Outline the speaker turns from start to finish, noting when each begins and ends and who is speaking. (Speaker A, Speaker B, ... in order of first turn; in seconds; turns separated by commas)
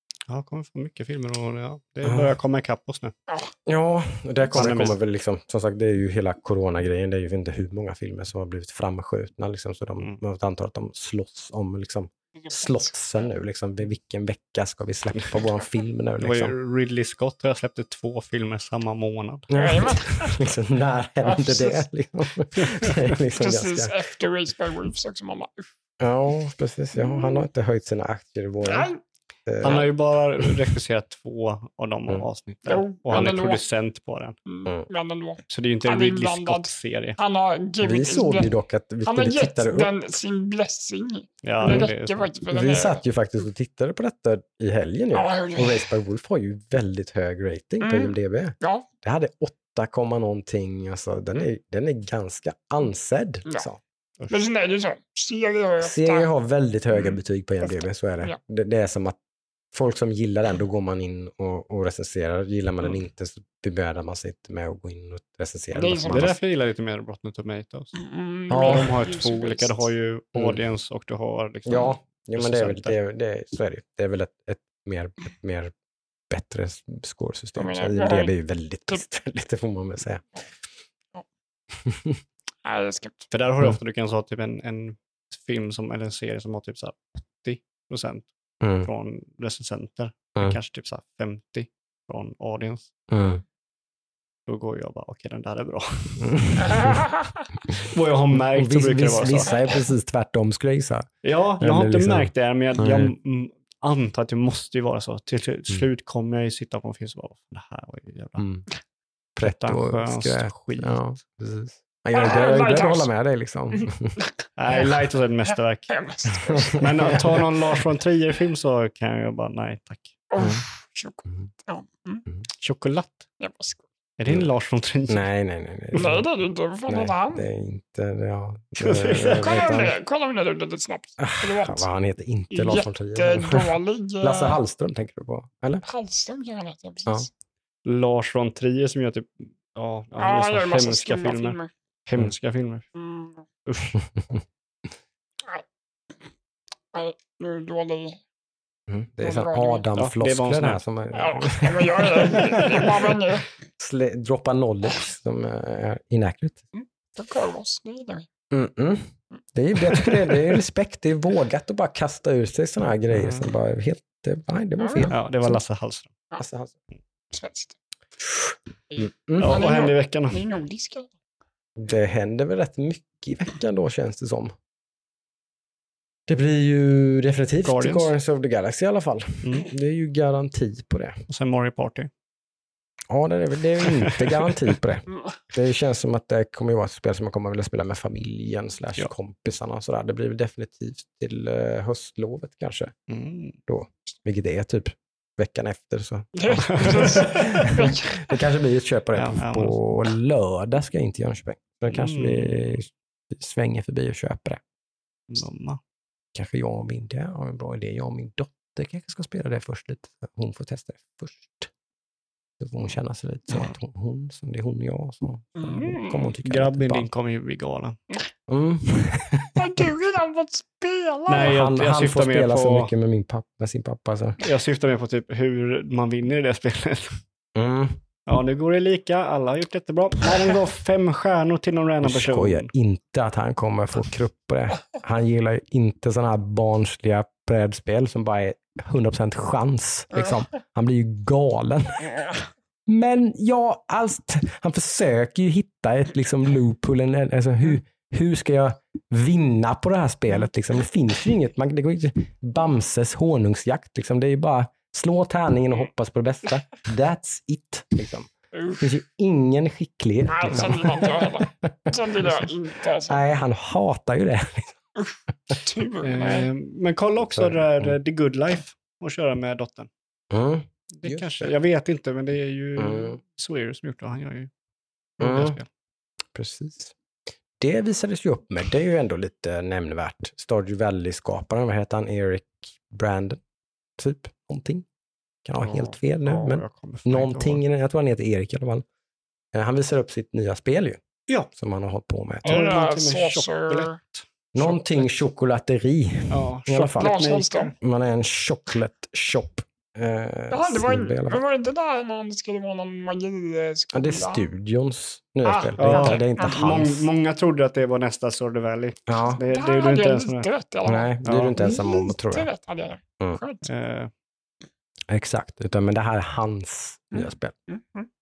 Speaker A: 0.3-3.1, Speaker B: 2.0-2.3, Speaker B: 3.6-16.6, Speaker A: 4.6-5.0, Speaker C: 12.4-12.8, Speaker A: 16.2-19.5, Speaker B: 19.5-23.9, Speaker C: 19.5-20.4, Speaker C: 21.2-21.8, Speaker C: 23.4-25.7, Speaker B: 26.0-28.9, Speaker C: 26.9-27.4, Speaker C: 28.6-29.0, Speaker B: 29.5-29.9, Speaker A: 29.6-34.4, Speaker C: 32.7-33.6, Speaker C: 34.5-38.5, Speaker A: 35.5-37.2, Speaker B: 37.8-39.9, Speaker C: 39.1-43.0, Speaker A: 41.4-42.3, Speaker B: 42.5-53.8, Speaker C: 45.1-45.9, Speaker C: 47.8-48.9, Speaker C: 54.3-56.3, Speaker B: 55.8-59.2, Speaker C: 56.9-58.4, Speaker B: 59.7-66.3, Speaker C: 65.7-66.4, Speaker A: 66.1-67.9, Speaker C: 67.9-69.9, Speaker B: 68.5-68.9, Speaker A: 68.6-72.9, Speaker B: 70.3-70.6, Speaker B: 71.7-75.7, Speaker B: 76.3-80.2, Speaker C: 77.6-78.3, Speaker B: 81.7-82.2, Speaker C: 82.6-83.3, Speaker A: 83.3-88.3, Speaker B: 88.6-88.9, Speaker A: 88.8-92.9, Speaker B: 93.1-93.4, Speaker A: 94.5-96.3, Speaker B: 96.2-97.0, Speaker A: 97.8-99.5, Speaker B: 98.5-103.1, Speaker A: 101.2-108.4, Speaker B: 108.4-108.7, Speaker B: 109.3-114.2, Speaker A: 109.4-111.2, Speaker C: 112.1-113.1, Speaker C: 113.7-114.9, Speaker A: 114.6-115.9, Speaker C: 115.9-117.3, Speaker B: 116.5-117.3, Speaker A: 116.8-120.2, Speaker C: 120.3-122.2, Speaker A: 122.5-123.2, Speaker C: 123.4-123.8, Speaker A: 124.2-125.3, Speaker B: 125.1-126.2, Speaker C: 125.9-127.5, Speaker B: 126.9-130.0, Speaker A: 128.8-129.6, Speaker C: 129.3-131.9, Speaker B: 131.2-135.8, Speaker C: 132.5-134.6, Speaker C: 135.8-137.3, Speaker A: 137.8-142.9, Speaker C: 140.2-141.7, Speaker C: 142.9-143.4, Speaker A: 143.6-144.0, Speaker C: 146.9-148.2, Speaker B: 148.9-153.2, Speaker C: 149.2-149.8, Speaker A: 149.9-150.8, Speaker C: 151.1-153.4, Speaker B: 153.8-156.6, Speaker C: 156.7-158.3, Speaker B: 158.5-165.2, Speaker A: 163.1-163.5, Speaker C: 164.8-165.2, Speaker A: 165.1-166.1, Speaker B: 166.4-166.8, Speaker C: 167.3-167.7, Speaker C: 168.9-171.1, Speaker B: 169.0-169.6, Speaker A: 169.4-170.4, Speaker B: 171.8-174.5, Speaker B: 176.3-181.2, Speaker A: 177.6-178.1, Speaker A: 179.4-179.7, Speaker A: 181.3-182.1, Speaker B: 183.1-192.9, Speaker A: 183.8-184.5, Speaker A: 193.1-193.6, Speaker B: 193.7-204.6, Speaker C: 196.3-198.4, Speaker A: 196.7-197.4, Speaker A: 199.1-199.8, Speaker A: 201.9-202.8, Speaker A: 205.3-205.8, Speaker B: 206.3-211.7, Speaker B: 212.6-217.1, Speaker C: 215.6-216.3, Speaker A: 216.4-218.0, Speaker B: 218.5-219.9, Speaker C: 219.6-221.6, Speaker A: 221.3-222.9, Speaker B: 221.4-224.4, Speaker A: 224.4-227.2, Speaker B: 227.6-228.0, Speaker A: 228.3-232.7, Speaker B: 232.0-242.2, Speaker B: 242.8-262.5, Speaker C: 258.5-258.8, Speaker C: 260.3-263.3, Speaker B: 263.1-264.8, Speaker C: 265.0-266.5, Speaker A: 266.0-269.9, Speaker B: 267.3-268.0, Speaker B: 270.3-271.5, Speaker A: 270.9-274.5, Speaker B: 272.8-273.2, Speaker A: 275.2-275.7, Speaker B: 275.2-275.6, Speaker B: 276.3-276.9, Speaker B: 277.6-283.4, Speaker B: 284.0-284.9, Speaker B: 285.4-288.9, Speaker A: 285.6-287.6, Speaker B: 289.5-291.0, Speaker B: 291.5-292.5, Speaker A: 292.4-294.7, Speaker C: 292.4-294.0, Speaker B: 294.6-297.1, Speaker A: 296.3-297.7, Speaker C: 297.0-297.7, Speaker B: 297.8-301.4, Speaker C: 300.5-304.4, Speaker B: 303.9-307.1, Speaker C: 305.4-306.7, Speaker A: 305.8-310.5, Speaker B: 309.1-309.4, Speaker C: 309.5-313.6, Speaker B: 310.9-312.5, Speaker A: 311.2-311.6, Speaker A: 313.6-314.1, Speaker B: 315.1-317.6, Speaker C: 317.1-318.1